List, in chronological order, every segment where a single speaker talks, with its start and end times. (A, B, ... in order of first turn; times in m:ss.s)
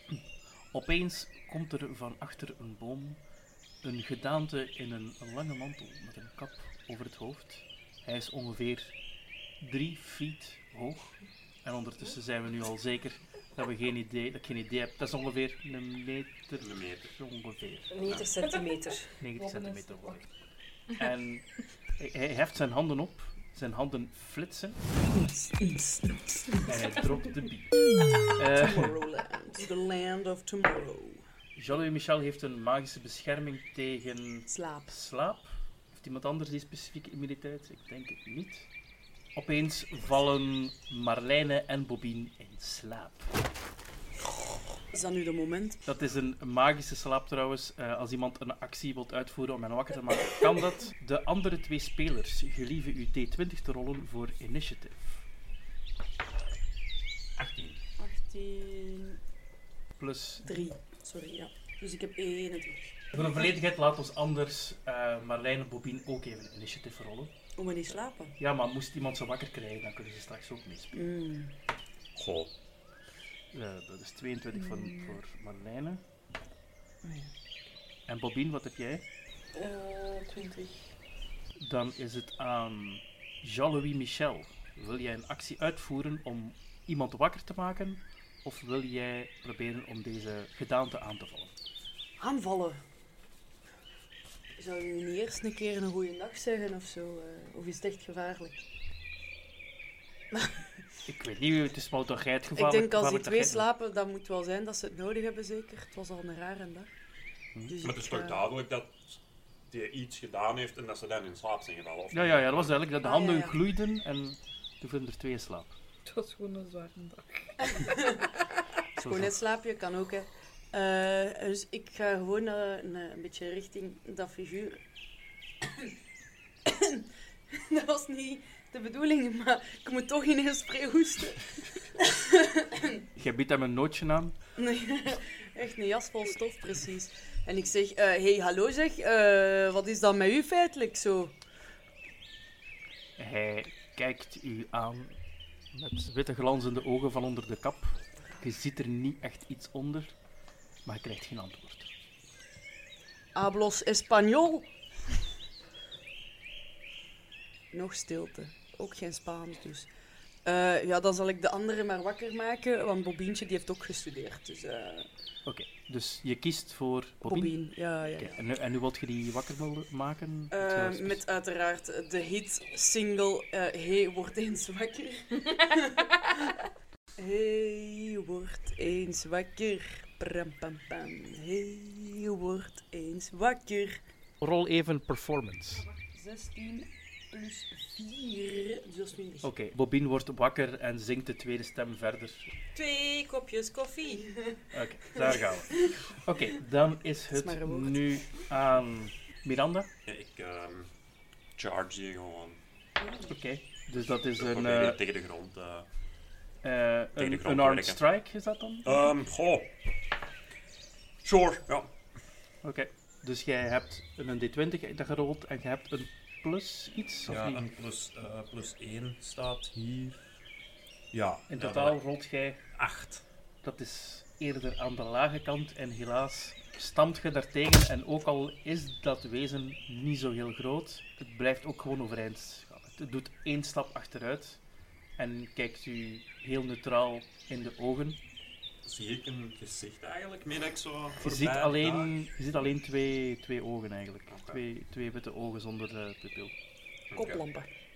0:00.7-0:03.2 A
0:03.8-0:08.9 A
0:09.6-0:17.9 A
0:16.6-0:17.1 B
0:17.9-0:19.1 C
0:18.0-0:18.3 B
0:19.1-0:20.3 A
0:19.3-0:20.2 D
0:21.0-0:24.8 A
0:25.1-0:26.7 E
0:26.6-0:29.0 A
0:28.5-0:31.2 E
0:31.6-0:38.7 A
0:34.5-0:34.9 E
0:39.3-0:43.3 A
0:44.9-0:45.8 E
0:45.8-0:55.2 A
0:57.4-0:57.8 B
0:58.0-0:59.1 E
1:00.0-1:00.6 A
1:00.4-1:03.0 E
1:03.1-1:07.3 A
1:07.6-1:08.4 E
1:08.4-1:11.0 A
1:10.9-1:11.5 E
1:12.1-1:12.5 B
1:13.5-1:16.0 A
1:14.6-1:15.1 D
1:17.0-1:17.3 E
1:18.1-1:19.0 A
1:19.5-1:20.8 C
1:21.6-1:31.5 A
1:32.2-1:32.8 E
1:34.6-1:38.6 E
1:40.3-1:40.6 E
1:41.1-1:43.7 A
1:42.5-1:46.9 E
1:47.7-1:48.4 E
1:47.8-1:52.8 B
1:52.1-1:55.8 A
1:53.0-1:53.6 E
1:56.0-1:57.8 D
1:57.7-1:58.3 E
1:59.0-2:04.8 E
1:59.0-1:59.3 A
2:05.6-2:05.9 E
2:06.6-2:13.0 E
2:13.2-2:14.4 A
2:14.6-2:21.4 E
2:23.2-2:25.2 A
2:25.7-2:30.1 A
2:30.8-2:31.9 A
2:33.3-2:35.2 E
2:37.7-2:39.9 E
2:40.4-2:45.1 E
2:45.4-2:47.6 A
2:47.2-2:48.4 E
2:48.2-2:51.2 A
2:50.5-2:56.6 E
2:57.2-3:04.0 E
3:04.4-3:05.8 A
3:06.1-3:09.5 E
3:09.4-3:12.5 A
3:12.7-3:14.3 C
3:14.7-3:19.9 A
3:17.3-3:18.1 E
3:20.0-3:20.9 B
3:21.6-3:22.6 B
3:23.3-3:25.0 A
3:24.0-3:25.9 B
3:26.6-3:28.9 A
3:27.2-3:28.0 B
3:28.8-3:29.7 B
3:31.2-3:31.9 B
3:32.6-3:37.6 A
3:37.3-3:40.2 B
3:41.1-3:42.0 B
3:41.5-3:42.6 A
3:42.7-3:43.2 B
3:43.6-3:54.6 A
3:55.2-3:58.2 A
3:58.8-4:02.1 B
4:01.2-4:06.5 A
4:04.3-4:04.6 B
4:07.1-4:07.4 B
4:07.1-4:07.7 E